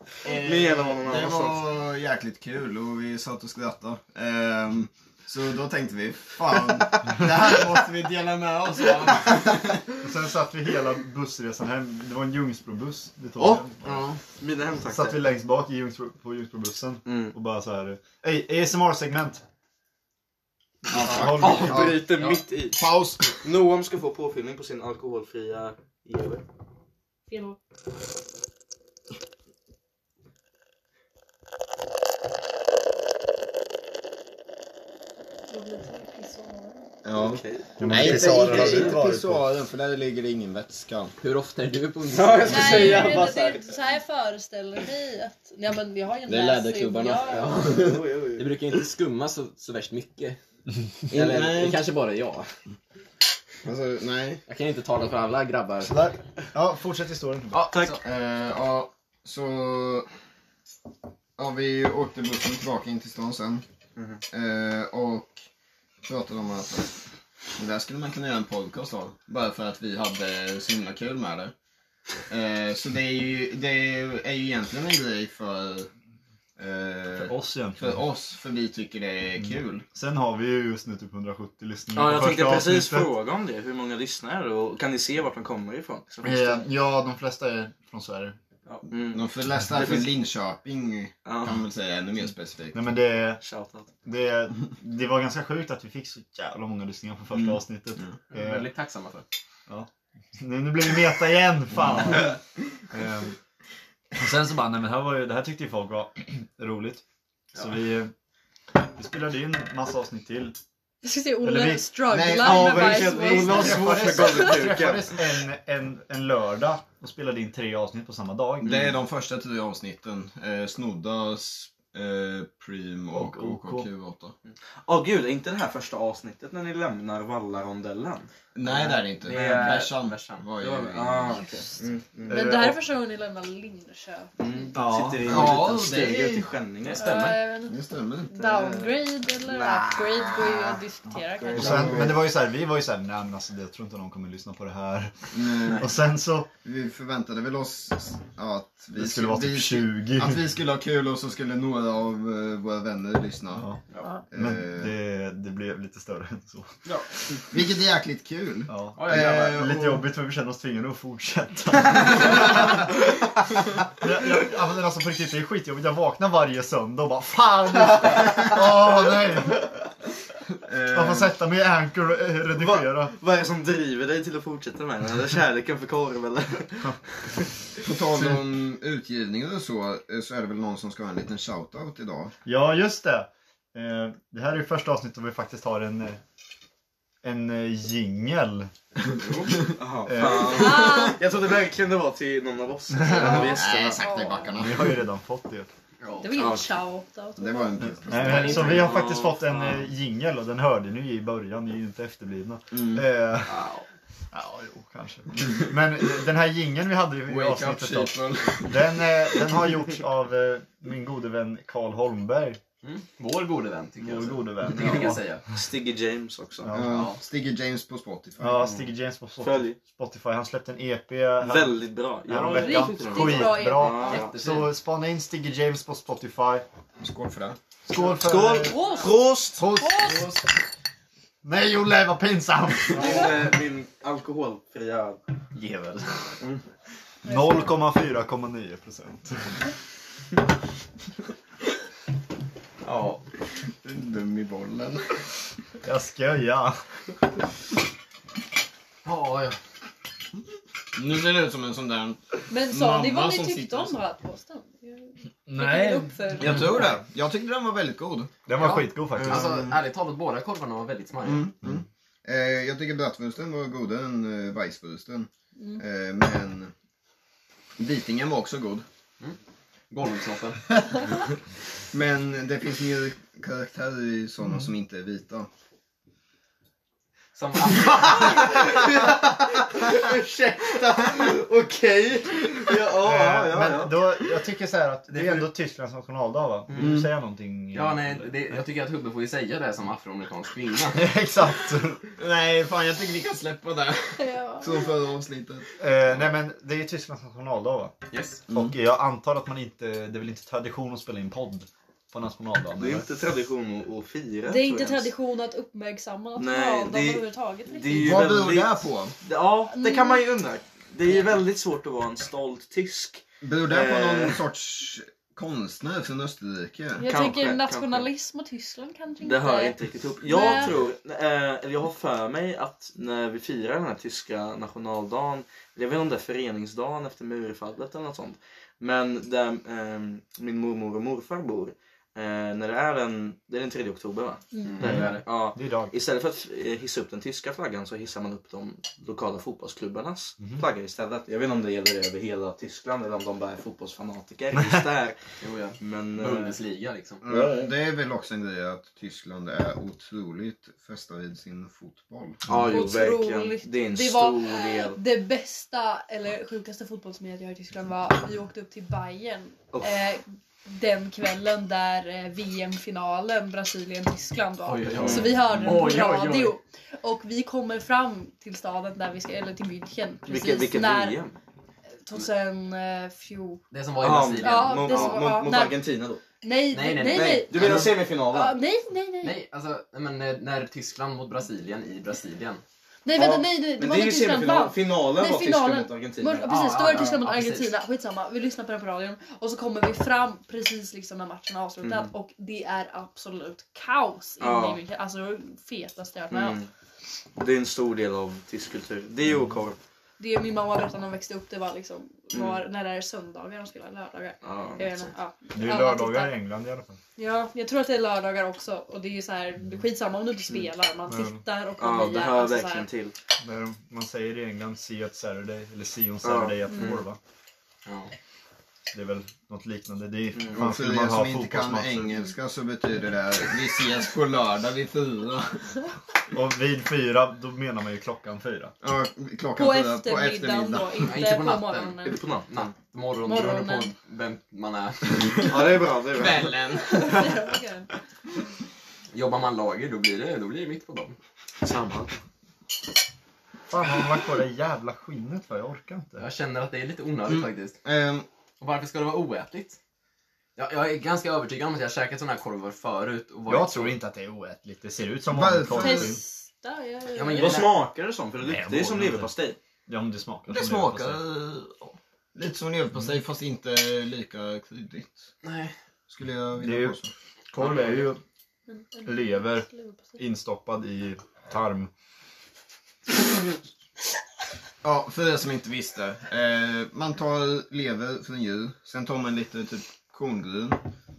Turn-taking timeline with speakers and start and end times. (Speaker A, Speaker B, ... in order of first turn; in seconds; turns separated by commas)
Speaker A: 0.2-9.9, Speaker B: 0.2-1.6, Speaker C: 10.0-14.0, Speaker B: 13.4-15.2, Speaker C: 14.8-19.4, Speaker B: 17.1-17.3, Speaker A: 20.9-23.4, Speaker C: 20.9-22.0, Speaker B: 21.0-26.4, Speaker D: 27.3-27.6, Speaker D: 35.5-36.9, Speaker A: 37.0-41.1, Speaker B: 37.1-39.0, Speaker C: 37.8-39.5, Speaker E: 41.2-43.1, Speaker B: 42.2-43.2, Speaker C: 42.4-43.6, Speaker D: 42.5-47.7, Speaker A: 46.3-48.1, Speaker E: 47.3-47.8, Speaker B: 47.7-48.4, Speaker E: 48.4-50.4, Speaker A: 51.1-51.8, Speaker E: 51.1-52.5, Speaker A: 53.6-54.4, Speaker E: 54.5-56.1, Speaker C: 55.8-57.6, Speaker E: 57.5-58.0, Speaker B: 57.7-58.0, Speaker A: 58.0-60.1, Speaker A: 61.4-63.6, Speaker B: 64.0-64.2, Speaker A: 64.3-65.4, Speaker A: 66.0-66.9, Speaker A: 67.6-71.5, Speaker A: 72.3-75.9, Speaker A: 76.6-79.8, Speaker C: 77.2-78.0, Speaker C: 79.4-83.1, Speaker B: 81.9-86.6, Speaker C: 86.2-88.4, Speaker B: 88.7-90.1, Speaker A: 89.1-92.8, Speaker B: 91.2-91.6, Speaker C: 92.7-93.4, Speaker B: 93.4-93.9, Speaker C: 94.0-98.7, Speaker A: 97.3-98.1, Speaker E: 98.3-99.3, Speaker C: 99.7-103.4, Speaker C: 104.1-107.0, Speaker C: 107.5-108.1, Speaker C: 108.9-110.6, Speaker D: 111.0-114.6, Speaker C: 111.4-112.0, Speaker A: 112.1-113.9, Speaker B: 112.3-115.1, Speaker C: 113.3-119.0, Speaker A: 118.6-124.3, Speaker C: 123.1-123.9, Speaker B: 124.8-128.3, Speaker A: 128.6-131.4, Speaker E: 129.2-130.4, Speaker B: 129.3-129.9, Speaker B: 130.6-132.7, Speaker D: 131.3-134.7, Speaker C: 132.3-132.7, Speaker B: 134.4-137.3, Speaker C: 134.7-135.6, Speaker A: 135.2-136.5, Speaker E: 136.8-137.4, Speaker D: 136.9-142.0, Speaker A: 137.6-138.3, Speaker B: 138.3-140.5, Speaker A: 141.5-142.2, Speaker C: 141.6-146.5, Speaker A: 145.3-145.9, Speaker A: 146.6-153.7, Speaker C: 148.9-150.4, Speaker C: 153.5-156.9, Speaker A: 154.3-154.9, Speaker A: 157.5-160.0, Speaker C: 158.7-163.0, Speaker E: 159.0-159.6, Speaker C: 163.9-169.9, Speaker A: 170.6-171.3, Speaker C: 170.9-173.1, Speaker B: 172.6-177.9, Speaker A: 177.8-182.3, Speaker C: 182.4-186.2, Speaker C: 187.2-188.7, Speaker E: 189.2-189.6, Speaker B: 189.7-194.0, Speaker C: 190.1-190.8, Speaker A: 190.3-190.8, Speaker D: 190.4-191.2, Speaker C: 193.0-193.4, Speaker D: 193.1-194.6, Speaker A: 193.3-195.0, Speaker C: 194.6-195.7, Speaker E: 196.0-196.3, Speaker D: 196.2-198.0, Speaker B: 196.3-196.7, Speaker A: 197.4-199.0, Speaker C: 197.8-203.6, Speaker E: 198.3-199.1, Speaker B: 198.3-199.8, Speaker A: 202.7-203.0, Speaker E: 203.5-203.8, Speaker C: 204.3-212.6, Speaker A: 207.3-209.1, Speaker E: 212.8-215.4, Speaker C: 214.0-215.2, Speaker B: 215.5-216.7, Speaker C: 216.6-216.9, Speaker A: 216.7-218.7, Speaker E: 216.8-217.2, Speaker C: 218.4-226.6, Speaker B: 219.4-219.8, Speaker B: 221.4-224.3, Speaker D: 222.5-224.2, Speaker E: 224.0-224.7, Speaker A: 227.0-227.6, Speaker C: 227.9-228.8, Speaker B: 227.9-229.7, Speaker D: 228.6-229.2, Speaker C: 229.6-230.3, Speaker D: 229.7-230.4, Speaker C: 231.4-233.2, Speaker B: 232.9-236.6, Speaker C: 237.2-239.6, Speaker D: 237.2-237.7, Speaker E: 242.8-243.2, Speaker A: 243.8-245.2, Speaker C: 245.8-246.8, Speaker E: 249.1-249.6, Speaker A: 250.9-253.9, Speaker D: 252.5-256.9, Speaker C: 255.5-256.4, Speaker A: 256.4-258.3, Speaker C: 258.5-259.5, Speaker E: 258.6-261.5, Speaker A: 259.1-259.8, Speaker A: 261.2-266.7, Speaker D: 265.6-265.8, Speaker A: 267.8-268.9, Speaker E: 269.9-271.0, Speaker A: 271.9-275.5, Speaker E: 277.4-278.6, Speaker B: 277.9-284.3, Speaker C: 283.0-288.6, Speaker B: 285.1-285.4, Speaker A: 286.8-287.1, Speaker E: 287.7-291.1, Speaker C: 290.9-292.0, Speaker A: 292.2-295.7, Speaker D: 294.2-294.9, Speaker C: 295.8-297.9, Speaker E: 298.1-298.4, Speaker A: 298.5-298.7, Speaker C: 298.5-303.1, Speaker B: 302.8-305.1, Speaker D: 304.4-308.2, Speaker B: 306.4-314.4, Speaker A: 308.0-309.1, Speaker D: 309.7-310.2, Speaker A: 313.4-317.1, Speaker D: 317.0-320.7, Speaker B: 317.0-318.1, Speaker B: 319.2-345.2, Speaker D: 334.5-334.8, Speaker E: 334.6-335.2, Speaker C: 334.8-335.9, Speaker E: 345.4-347.2, Speaker B: 345.8-346.6, Speaker A: 347.2-352.7, Speaker B: 352.4-355.0, Speaker D: 352.6-371.2, Speaker B: 359.7-360.0, Speaker E: 364.6-366.6, Speaker B: 365.0-365.7, Speaker B: 370.3-371.3, Speaker D: 372.1-373.6, Speaker E: 373.7-375.2, Speaker B: 374.0-376.2, Speaker D: 374.4-375.8, Speaker D: 376.4-379.4, Speaker E: 376.7-377.9, Speaker B: 377.1-378.6, Speaker E: 379.2-382.6, Speaker D: 383.1-396.6, Speaker B: 383.1-387.1, Speaker E: 386.4-387.7, Speaker B: 391.8-392.1, Speaker B: 394.4-394.8, Speaker B: 396.3-396.7, Speaker B: 397.4-399.8, Speaker D: 400.2-406.4, Speaker B: 402.3-402.6, Speaker B: 404.4-405.1, Speaker C: 405.5-407.0, Speaker D: 407.2-412.9, Speaker C: 411.1-411.4, Speaker B: 411.8-413.1, Speaker C: 413.4-417.2, Speaker B: 416.2-416.6, Speaker E: 417.9-418.1, Speaker C: 418.9-422.2, Speaker A: 420.5-425.8, Speaker C: 426.3-428.7, Speaker A: 428.8-431.0, Speaker D: 429.6-432.2, Speaker E: 431.0-435.4, Speaker B: 432.0-432.7, Speaker D: 433.2-433.9, Speaker B: 435.3-436.6, Speaker A: 436.1-437.3, Speaker D: 436.8-437.9, Speaker E: 439.1-441.1, Speaker B: 441.6-442.2, Speaker C: 443.7-446.2, Speaker E: 446.2-447.8, Speaker A: 447.3-448.2, Speaker E: 448.6-449.8, Speaker E: 450.6-453.9, Speaker C: 453.5-456.2, Speaker A: 455.3-456.1, Speaker D: 455.7-457.7, Speaker E: 457.1-457.7, Speaker B: 457.4-459.6, Speaker C: 458.4-459.3, Speaker C: 459.9-461.2, Speaker A: 460.5-465.2, Speaker E: 465.4-465.7, Speaker A: 466.1-467.1, Speaker C: 466.6-467.0, Speaker C: 467.5-468.2, Speaker B: 467.6-468.0, Speaker D: 468.7-470.2, Speaker C: 469.1-471.9, Speaker A: 474.8-480.8